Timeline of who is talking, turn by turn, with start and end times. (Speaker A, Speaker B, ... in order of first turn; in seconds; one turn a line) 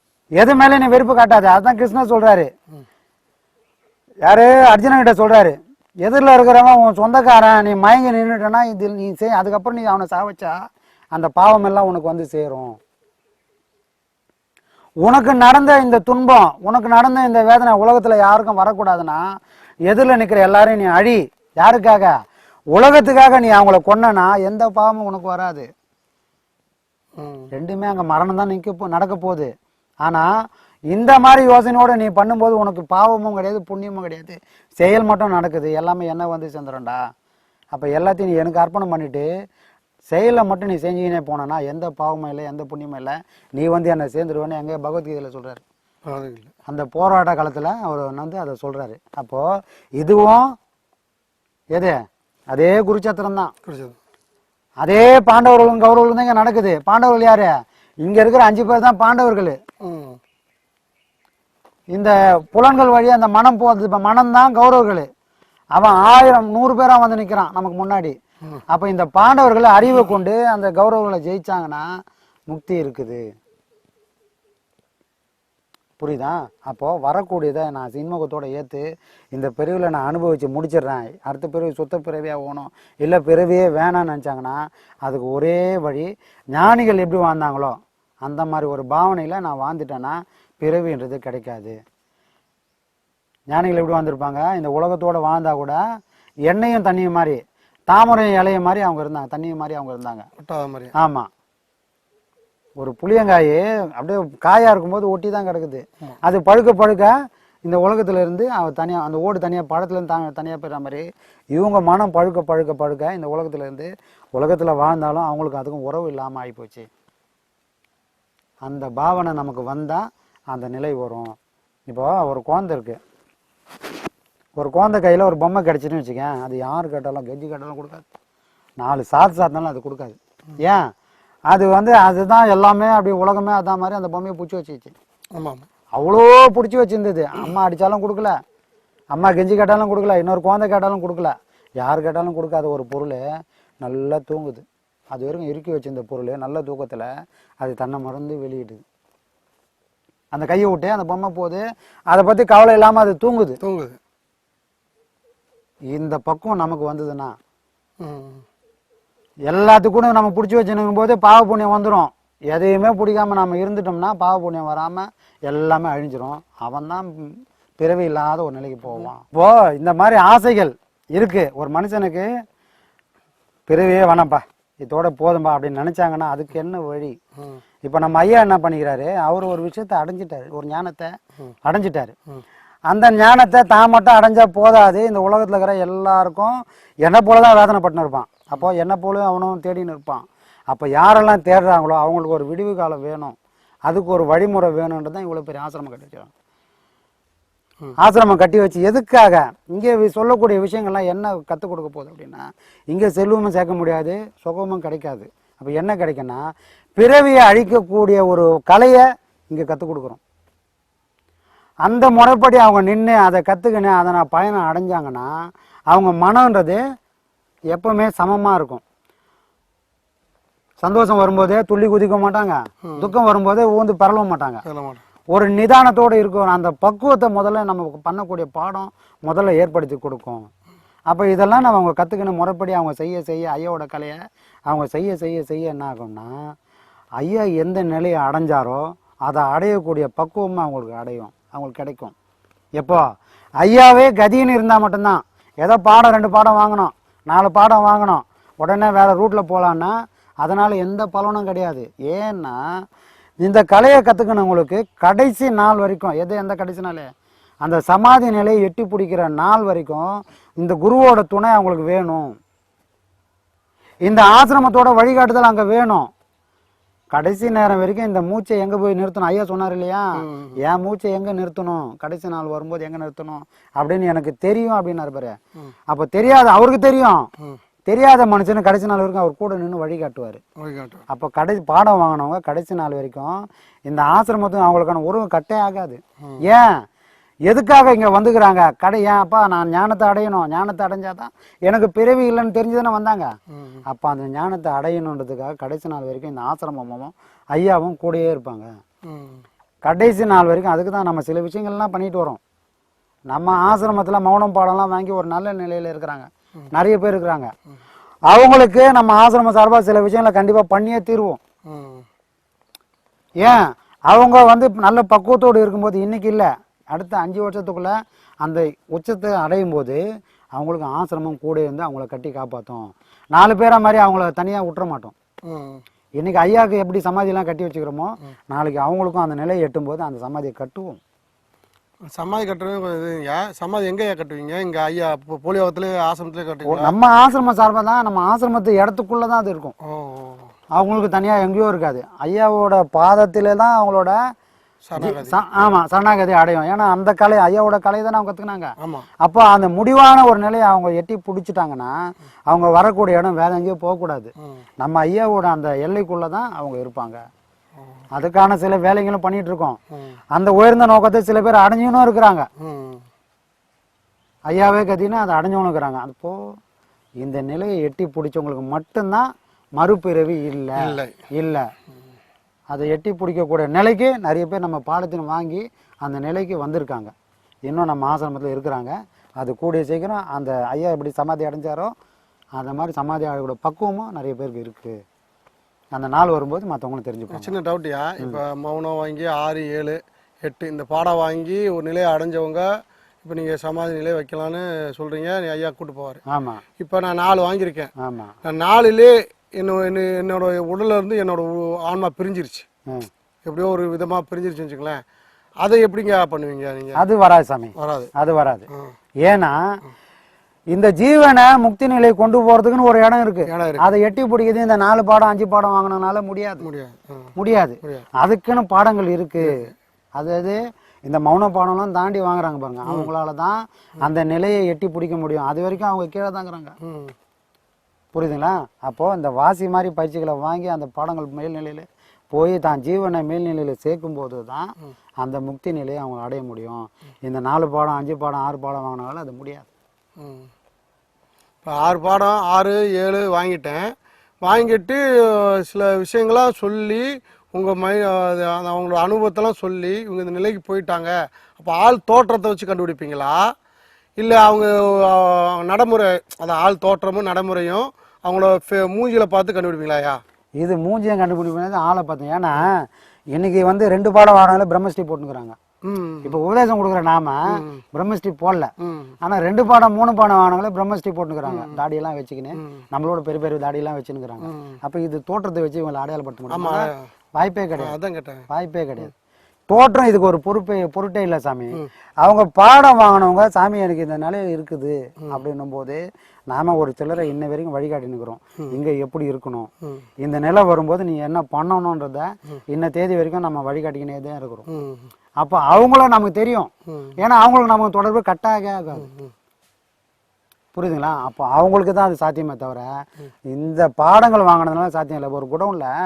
Speaker A: 0.4-2.5
Speaker A: 4.2-10.6
Speaker A: 11.1-12.8
Speaker A: 15.0-19.2
Speaker A: 19.9-22.1
Speaker A: 22.7-25.6
Speaker B: 27.1-27.5
Speaker A: 27.5-29.5
Speaker A: 30.9-37.0
Speaker A: 37.7-39.3
Speaker A: 40.1-45.6
Speaker B: 46.0-46.5
Speaker A: 46.7-49.5
Speaker A: 50.0-50.5
Speaker A: 52.5-53.5
Speaker B: 53.6-54.0
Speaker A: 54.8-57.5
Speaker A: 58.0-59.6
Speaker B: 59.8-60.2
Speaker A: 61.9-65.1
Speaker A: 65.7-68.1
Speaker A: 68.7-71.9
Speaker A: 72.5-73.2
Speaker A: 76.0-91.8
Speaker A: 93.5-95.8
Speaker A: 96.5-100.3
Speaker B: 100.4-100.9
Speaker A: 101.0-101.3
Speaker A: 102.8-107.1
Speaker A: 107.6-116.8
Speaker A: 118.6-121.3
Speaker A: 121.9-123.0
Speaker A: 124.6-128.0
Speaker A: 128.8-130.8
Speaker A: 131.5-134.9
Speaker B: 135.3-135.7
Speaker A: 136.0-138.3
Speaker A: 139.1-143.2
Speaker A: 143.8-147.1
Speaker A: 147.6-148.8
Speaker A: 150.3-153.6
Speaker B: 153.6-154.0
Speaker A: 155.9-157.3
Speaker B: 158.0-158.4
Speaker A: 159.5-172.3
Speaker A: 173.7-177.1
Speaker A: 177.8-181.1
Speaker A: 181.6-182.1
Speaker A: 182.9-193.3
Speaker A: 193.9-196.3
Speaker A: 198.0-206.4
Speaker A: 207.0-210.2
Speaker A: 211.8-215.3
Speaker A: 215.9-216.8
Speaker A: 217.7-218.8
Speaker A: 220.8-224.6
Speaker B: 224.6-225.0
Speaker A: 225.3-230.5
Speaker A: 231.1-236.3
Speaker A: 237.2-242.1
Speaker A: 242.8-243.0
Speaker A: 243.6-252.6
Speaker A: 253.4-257.1
Speaker A: 257.6-260.1
Speaker A: 260.6-262.4
Speaker A: 264.0-266.1
Speaker A: 267.1-275.3
Speaker B: 270.2-270.5
Speaker A: 275.9-277.3
Speaker A: 277.9-280.4
Speaker B: 280.6-281.0
Speaker A: 281.1-286.7
Speaker A: 287.5-293.3
Speaker B: 293.5-293.8
Speaker A: 293.9-298.7
Speaker B: 299.0-299.4
Speaker A: 299.8-302.4
Speaker A: 303.3-307.5
Speaker A: 308.3-311.4
Speaker B: 311.6-312.0
Speaker A: 313.4-320.0
Speaker A: 320.5-325.1
Speaker B: 325.4-325.8
Speaker A: 326.2-331.0
Speaker B: 332.1-336.9
Speaker A: 336.6-339.7
Speaker B: 339.8-340.5
Speaker A: 340.8-344.1
Speaker B: 344.9-345.4
Speaker A: 345.0-351.9
Speaker B: 348.8-349.1
Speaker A: 352.5-357.2
Speaker A: 358.1-359.8
Speaker A: 360.3-362.5
Speaker B: 362.6-363.0
Speaker A: 364.5-366.4
Speaker A: 367.2-371.7
Speaker B: 370.8-371.1
Speaker A: 372.7-377.1
Speaker A: 377.7-381.9
Speaker A: 382.6-384.9
Speaker A: 385.9-387.5
Speaker B: 387.3-396.2
Speaker A: 396.3-396.6
Speaker B: 396.8-397.9
Speaker A: 398.0-398.4
Speaker B: 398.4-402.6
Speaker B: 403.4-405.0
Speaker B: 405.6-407.0
Speaker A: 407.0-408.7
Speaker B: 407.8-408.1
Speaker A: 409.2-409.6
Speaker A: 410.7-416.6
Speaker B: 413.5-413.8
Speaker B: 416.6-417.3
Speaker A: 417.4-419.6
Speaker A: 420.2-426.8
Speaker B: 426.8-427.1
Speaker A: 428.1-439.7
Speaker B: 440.2-440.5
Speaker B: 441.6-453.5
Speaker B: 454.2-460.2
Speaker A: 460.6-465.6
Speaker B: 465.8-466.3
Speaker A: 466.2-468.7
Speaker B: 468.8-469.1
Speaker A: 469.2-478.0
Speaker B: 471.5-471.8
Speaker B: 474.4-474.7
Speaker B: 476.5-477.0
Speaker B: 477.8-478.4
Speaker A: 478.5-479.1
Speaker A: 479.7-489.7
Speaker A: 490.2-494.6
Speaker B: 494.7-495.1
Speaker A: 495.4-499.1
Speaker A: 500.7-502.9
Speaker A: 503.5-505.9